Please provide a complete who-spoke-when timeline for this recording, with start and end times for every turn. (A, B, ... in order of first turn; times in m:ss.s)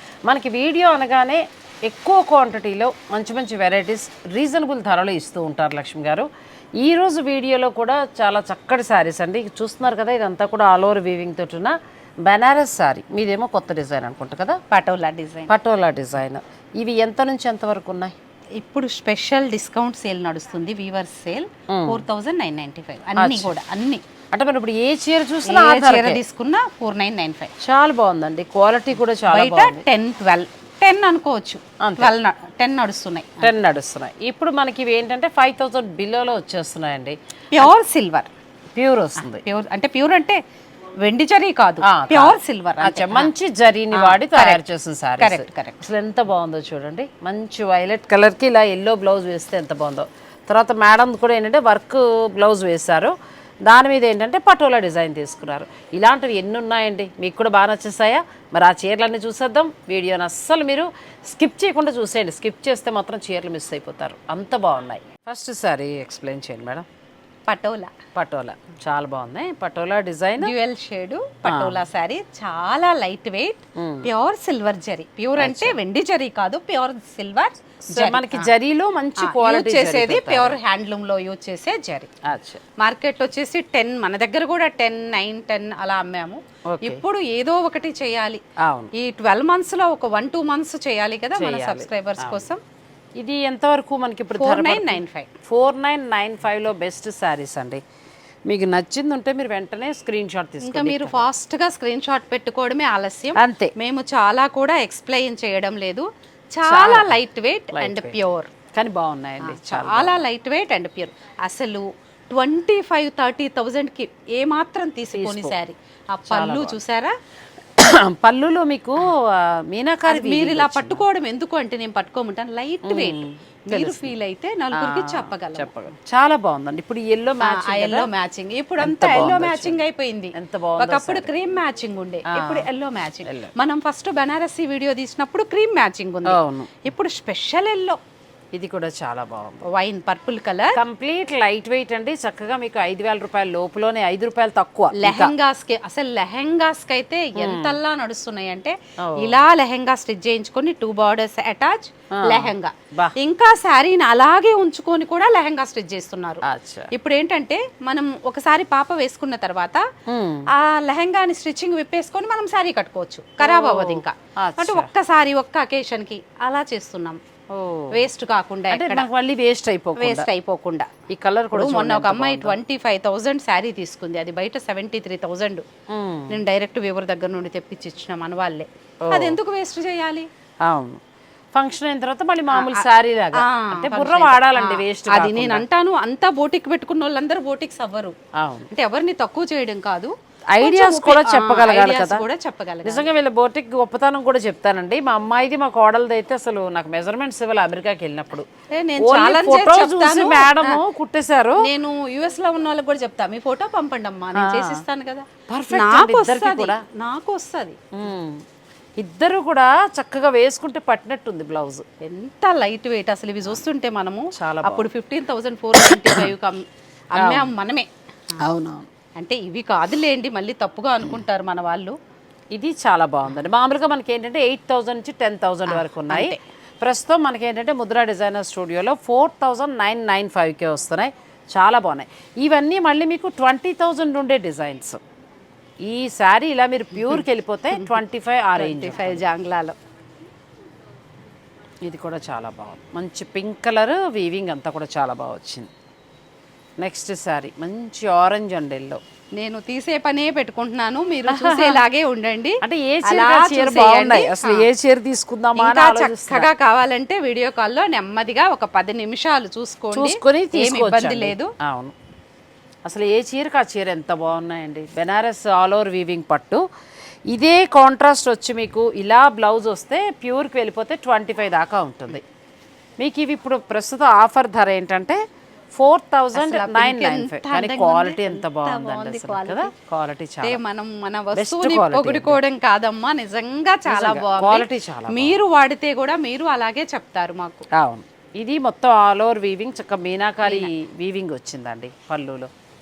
0:00.3-0:14.6 A
0:14.7-0:15.5 B
0:15.5-0:18.2 A
0:18.6-0:24.0 B
0:21.7-0:22.0 A
0:23.2-0:23.5 A
0:24.3-0:26.2 A
0:25.4-0:27.5 B
0:27.6-0:29.8 A
0:29.3-0:33.5 B
0:31.8-0:32.1 A
0:33.4-0:37.7 A
0:37.5-0:38.3 B
0:38.8-0:39.4 A
0:39.2-0:40.4 B
0:41.0-0:43.3 B
0:41.8-1:06.9 A
0:43.9-0:44.6 B
0:45.2-0:45.8 B
1:07.5-1:07.9 B
1:08.1-1:10.5 A
1:10.4-1:18.5 B
1:11.5-1:11.8 A
1:13.8-1:14.1 A
1:15.4-1:15.8 A
1:17.9-1:20.6 A
1:19.2-1:22.1 B
1:22.2-1:22.6 A
1:22.8-1:28.4 B
1:26.7-1:27.0 A
1:28.6-1:28.9 A
1:28.9-1:32.6 B
1:31.4-1:32.4 A
1:33.2-1:37.8 A
1:34.4-1:35.3 B
1:38.5-1:41.3 A
1:40.6-1:48.5 B
1:43.4-1:43.7 A
1:46.7-1:47.2 A
1:47.7-1:48.2 A
1:48.7-1:50.2 A
1:49.4-1:57.1 B
1:55.1-1:55.6 A
1:56.3-1:56.8 A
1:57.8-2:01.0 A
2:00.1-2:05.7 B
2:02.8-2:04.1 A
2:04.7-2:08.1 A
2:07.4-2:18.0 B
2:08.8-2:09.8 A
2:10.3-2:11.3 A
2:12.3-2:12.7 A
2:13.3-2:13.5 A
2:16.3-2:16.8 A
2:18.5-2:19.6 A
2:19.7-2:20.8 B
2:20.8-2:25.3 A
2:24.9-2:39.8 B
2:27.4-2:27.8 A
2:29.0-2:29.4 A
2:32.2-2:33.2 A
2:36.5-2:36.9 A
2:40.1-2:40.5 A
2:40.5-2:47.2 B
2:43.4-2:44.9 A
2:47.5-2:48.1 A
2:47.9-2:49.1 B
2:48.7-2:50.3 A
2:50.0-2:50.9 B
2:51.1-2:52.6 A
2:51.5-2:55.6 B
2:55.9-2:56.4 A
2:56.3-3:00.3 B
2:59.0-2:59.4 A
3:00.6-3:01.0 A
3:01.5-3:05.6 A
3:02.5-3:08.2 B
3:08.4-3:08.7 A
3:08.7-3:13.1 B
3:10.5-3:12.2 A
3:12.8-3:18.5 A
3:18.7-3:20.8 B
3:19.0-3:21.7 A
3:21.6-3:27.8 B
3:24.4-3:24.8 A
3:25.5-3:26.8 A
3:27.9-3:28.4 A
3:29.0-3:31.8 A
3:32.0-3:38.4 B
3:34.4-3:34.9 A
3:35.8-3:36.3 A
3:37.2-3:37.5 A
3:38.4-3:38.9 A
3:39.2-3:42.0 B
3:42.5-3:55.0 A
3:45.7-3:46.4 B
3:55.8-3:59.2 A
3:58.6-3:59.8 B
4:01.8-4:05.7 A
4:06.8-4:09.0 A
4:09.4-4:14.7 B
4:11.3-4:11.8 A
4:12.6-4:16.5 A
4:15.6-4:21.5 B
4:19.9-4:21.9 A
4:22.8-4:26.6 A
4:27.3-4:32.2 A
4:33.0-4:35.2 A
4:35.7-4:40.6 A
4:36.3-4:39.7 B
4:40.4-4:47.6 B
4:41.4-4:42.4 A
4:43.9-4:45.4 A
4:47.7-4:52.5 A
4:50.4-4:50.7 B